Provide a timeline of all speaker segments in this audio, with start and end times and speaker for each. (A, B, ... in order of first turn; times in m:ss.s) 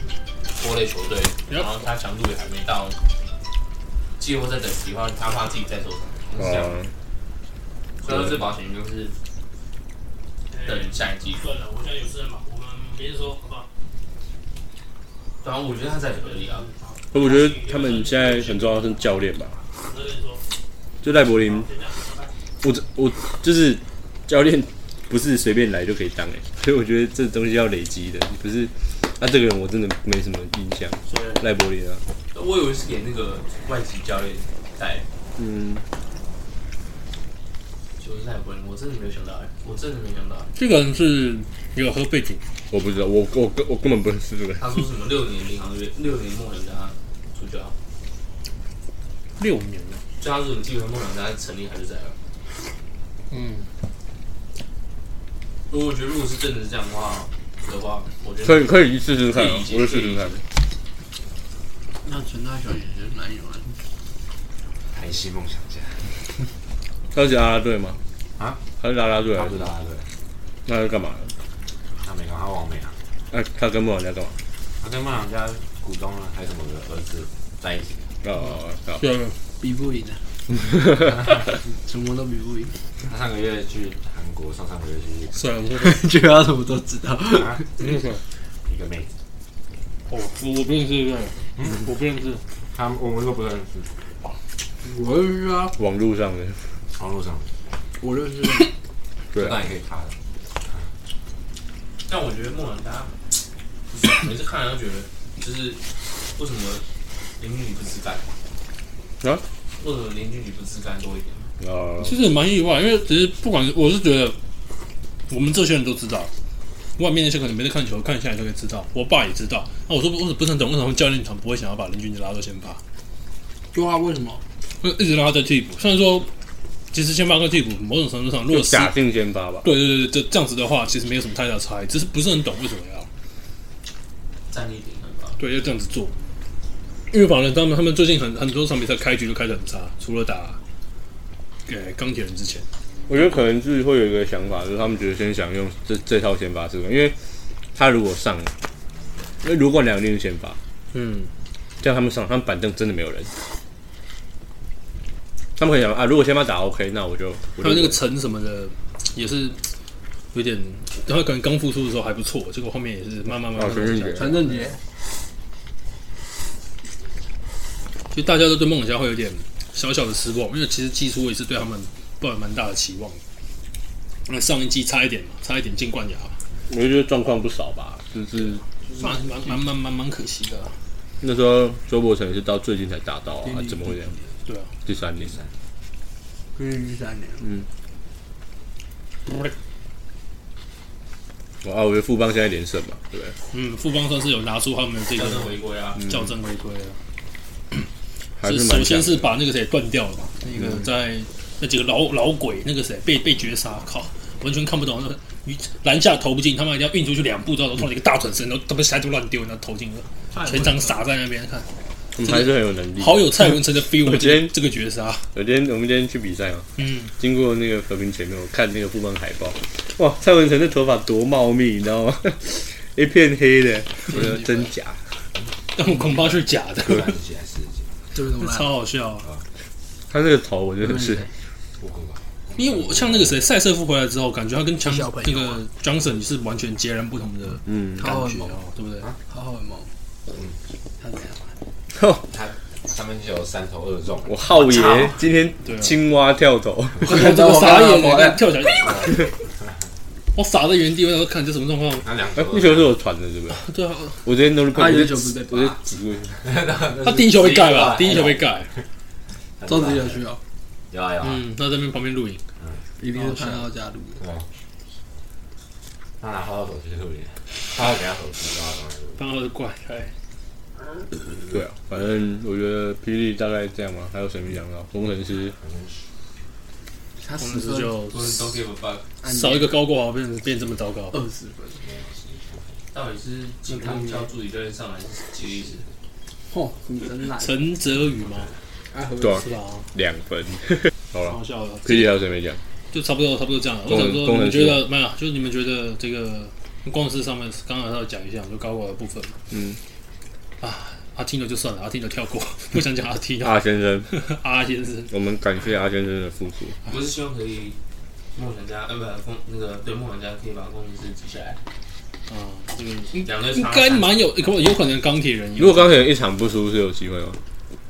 0:00.5-0:03.0 A
0:01.5-0:01.8 B
0:04.2-0:06.8 A
0:06.4-0:06.9 C
0:08.0-0:09.2 A
0:08.0-0:08.4 C
0:10.5-0:13.7 B
0:10.6-0:11.4 A
0:15.4-0:16.7 A
0:16.1-0:19.0 B
0:17.1-0:19.6 C
0:19.7-0:20.4 B
0:21.0-0:21.7 C
0:21.4-0:22.3 B
0:22.6-0:32.0 C
0:31.1-0:31.4 A
0:32.3-0:35.0 A
0:35.4-0:35.8 C
0:38.0-0:40.5 A
0:40.5-0:42.4 B
0:42.7-0:44.8 C
0:44.6-0:47.7 A
0:49.4-0:50.0 B
0:50.2-0:52.1 A
0:53.3-0:53.7 B
0:55.7-0:58.7 A
0:58.4-1:00.4 C
0:59.3-1:00.2 A
1:02.0-1:03.7 D
1:04.9-1:06.2 E
1:07.1-1:08.0 C
1:08.4-1:08.6 E
1:08.8-1:09.7 C
1:09.3-1:10.1 E
1:10.6-1:11.3 C
1:12.0-1:13.0 E
1:13.3-1:14.4 C
1:14.8-1:18.1 E
1:18.2-1:19.0 C
1:19.0-1:19.3 B
1:19.6-1:20.2 D
1:21.0-1:22.8 D
1:23.0-1:25.5 E
1:25.3-1:26.0 B
1:25.7-1:27.6 D
1:27.3-1:27.6 E
1:27.8-1:28.2 B
1:28.6-1:29.1 E
1:30.1-1:32.4 B
1:31.6-1:31.9 E
1:32.7-1:34.0 E
1:34.8-1:35.7 D
1:35.7-1:36.8 C
1:36.9-1:37.5 E
1:38.0-1:38.7 D
1:39.3-1:39.6 C
1:39.4-1:40.2 E
1:42.1-1:43.3 A
1:43.9-1:45.8 A
1:46.3-1:46.8 A
1:47.4-1:48.3 A
1:49.8-1:51.5 A
1:51.6-1:52.2 C
1:52.0-1:54.4 B
1:55.3-1:56.3 B
1:57.0-2:02.8 B
2:03.7-2:04.4 D
2:04.8-2:06.3 B
2:06.9-2:08.9 B
2:08.5-2:09.7 C
2:09.6-2:13.1 B
2:14.5-2:15.4 A
2:15.4-2:16.1 B
2:17.1-2:20.6 B
2:21.6-2:22.6 B
2:23.1-2:27.2 C
2:27.7-2:28.5 C
2:29.4-2:30.6 C
2:30.9-2:31.3 B
2:31.8-2:33.3 C
2:35.6-2:38.0 C
2:37.6-2:39.6 B
2:40.3-2:44.7 B
2:43.5-2:44.3 C
2:44.1-2:44.8 D
2:48.1-2:53.2 B
2:54.2-2:56.4 B
2:56.7-2:58.6 C
2:59.0-3:00.8 B
3:01.2-3:04.2 C
3:03.4-3:04.2 D
3:04.4-3:04.7 B
3:04.8-3:05.4 C
3:06.5-3:07.5 D
3:11.6-3:13.4 C
3:13.5-3:17.0 B
3:15.1-3:16.0 A
3:16.0-3:16.3 C
3:18.4-3:19.4 C
3:18.4-3:31.7 B
3:30.3-3:30.9 D
3:32.1-3:34.5 C
3:32.2-3:35.3 B
3:35.3-3:45.1 C
3:36.8-3:37.1 B
3:44.1-3:44.6 D
3:45.7-3:47.2 B
3:46.8-3:48.0 E
3:48.1-3:48.7 D
3:48.4-3:49.3 B
3:50.1-3:51.3 C
3:50.8-3:51.3 D
3:51.8-3:53.4 E
3:52.5-3:59.1 B
3:54.8-3:55.6 D
3:57.7-3:58.1 C
3:58.0-3:58.6 D
3:59.2-3:59.9 D
4:01.0-4:01.5 D
4:01.9-4:02.2 C
4:02.3-4:04.4 E
4:04.2-4:07.3 C
4:04.5-4:05.2 A
4:05.6-4:05.9 B
4:07.0-4:09.2 B
4:07.1-4:08.6 D
4:08.9-4:09.2 E
4:10.4-4:12.0 B
4:12.0-4:13.0 E
4:12.4-4:13.7 C
4:13.5-4:14.2 B
4:14.2-4:16.5 C
4:14.7-4:15.8 D
4:16.4-4:18.6 E
4:17.0-4:18.7 B
4:19.6-4:20.4 E
4:19.6-4:20.4 D
4:20.9-4:21.5 E
4:21.2-4:22.4 B
4:22.6-4:22.9 E
4:23.0-4:24.2 D
4:23.3-4:23.6 B
4:24.2-4:24.5 E
4:26.2-4:29.3 E
4:29.2-4:30.1 B
4:31.5-4:35.5 C
4:35.5-4:36.1 E
4:37.2-4:37.9 D
4:37.4-4:38.4 B
4:38.1-4:39.0 A
4:39.2-4:39.7 D
4:39.2-4:41.2 B
4:41.1-4:41.8 D
4:41.8-4:42.7 E
4:42.9-4:45.9 A
4:43.7-4:44.3 D
4:46.5-4:47.7 D
4:47.3-4:48.5 B
4:48.9-4:49.5 D
4:49.2-4:52.6 C
4:49.4-4:49.9 B
4:51.2-4:52.1 B
4:52.9-4:59.4 B
4:53.9-4:54.8 C
4:59.5-4:59.8 C
5:00.6-5:05.1 B
5:03.4-5:04.1 C
5:05.1-5:06.8 C
5:06.9-5:07.8 A
5:08.3-5:11.6 A
5:12.3-5:16.0 B
5:13.2-5:14.1 A
5:15.6-5:17.4 C